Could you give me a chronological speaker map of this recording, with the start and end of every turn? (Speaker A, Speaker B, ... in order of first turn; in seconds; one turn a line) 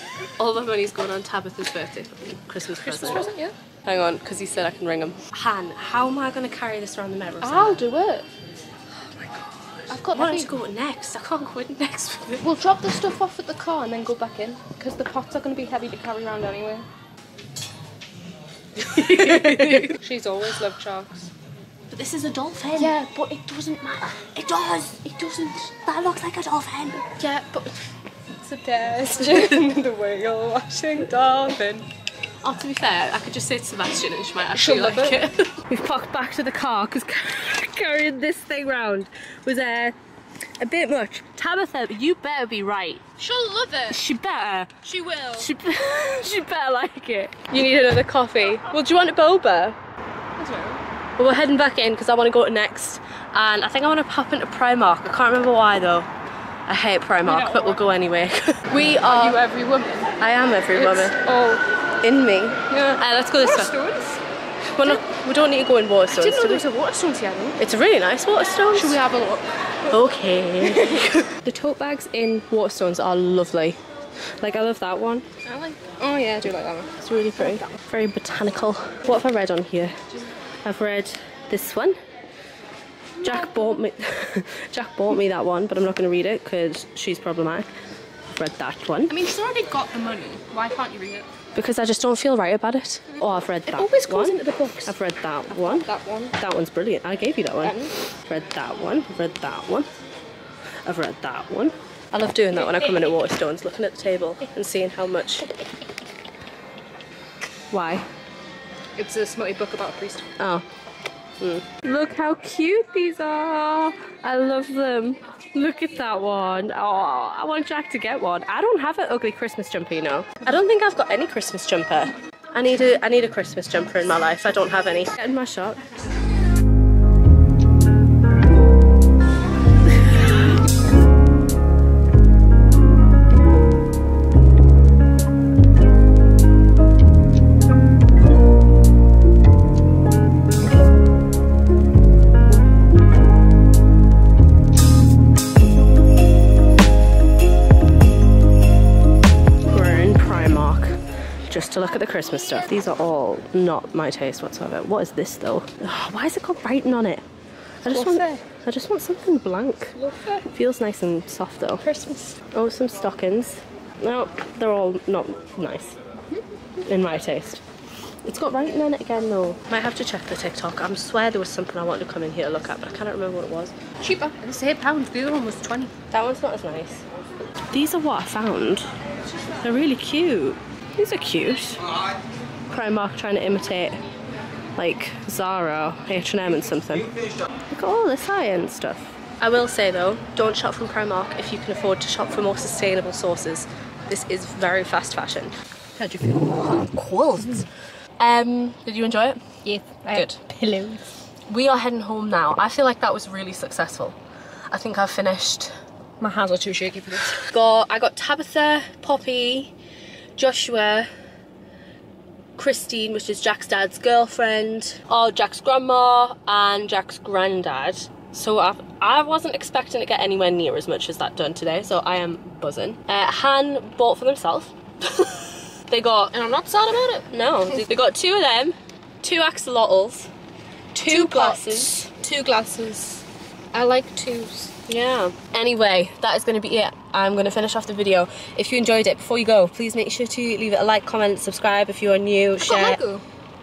Speaker A: 0.4-3.3
Speaker B: 2.8-3.5
Speaker A: 3.8-7.8
Speaker B: 7.4-8.3
Speaker A: 9.0-12.5
Speaker B: 9.9-10.5
Speaker B: 12.4-16.9
Speaker A: 18.8-19.9
Speaker B: 19.2-21.3
Speaker A: 21.9-23.0
Speaker B: 22.8-24.3
Speaker A: 24.1-27.1
Speaker B: 27.0-27.8
Speaker B: 28.4-31.4
Speaker A: 29.1-29.6
Speaker A: 31.0-31.8
Speaker A: 32.4-39.9
Speaker B: 34.5-35.2
Speaker A: 40.6-43.0
Speaker B: 43.2-44.0
Speaker A: 43.9-44.7
Speaker B: 44.8-45.5
Speaker A: 45.4-49.8
Speaker B: 50.4-50.8
Speaker A: 51.2-56.1
Speaker A: 56.7-59.4
Speaker B: 57.2-57.8
Speaker B: 58.7-60.1
Speaker A: 60.2-61.1
Speaker B: 60.8-61.6
Speaker A: 62.0-63.8
Speaker B: 62.7-64.2
Speaker A: 64.7-66.6
Speaker B: 66.1-67.6
Speaker A: 67.6-69.0
Speaker B: 68.7-69.5
Speaker A: 69.8-73.8
Speaker B: 70.6-71.1
Speaker A: 74.4-75.3
Speaker B: 75.4-77.7
Speaker A: 77.0-80.0
Speaker A: 80.6-82.0
Speaker B: 83.2-83.7
Speaker A: 83.2-87.7
Speaker A: 88.3-89.2
Speaker B: 89.1-91.3
Speaker A: 91.5-99.9
Speaker B: 93.7-95.0
Speaker B: 95.5-96.3
Speaker B: 97.6-97.9
Speaker A: 100.8-105.5
Speaker A: 107.7-108.1
Speaker B: 109.0-110.3
Speaker A: 110.4-110.7
Speaker A: 111.4-125.8
Speaker A: 149.7-157.2
Speaker A: 157.8-160.0
Speaker B: 157.9-158.4
Speaker B: 159.9-160.5
Speaker A: 160.5-161.9
Speaker B: 161.8-162.3
Speaker A: 162.5-165.9
Speaker A: 166.8-167.6
Speaker A: 168.2-173.7
Speaker B: 174.0-175.9
Speaker A: 176.1-177.0
Speaker A: 177.7-178.9
Speaker A: 179.6-181.8
Speaker A: 182.7-184.0
Speaker A: 184.8-187.1
Speaker A: 187.7-195.5
Speaker B: 196.0-196.4
Speaker A: 196.3-197.7
Speaker A: 198.2-199.4
Speaker B: 199.6-201.0
Speaker A: 200.1-200.6
Speaker A: 201.5-204.2
Speaker A: 204.7-205.8
Speaker B: 206.2-207.4
Speaker A: 207.4-209.7
Speaker A: 210.4-211.1
Speaker A: 212.6-226.3
Speaker B: 226.3-227.8
Speaker A: 227.3-230.3
Speaker A: 230.9-233.2
Speaker B: 231.1-232.1
Speaker B: 233.7-234.7
Speaker A: 234.9-243.0
Speaker B: 242.6-243.2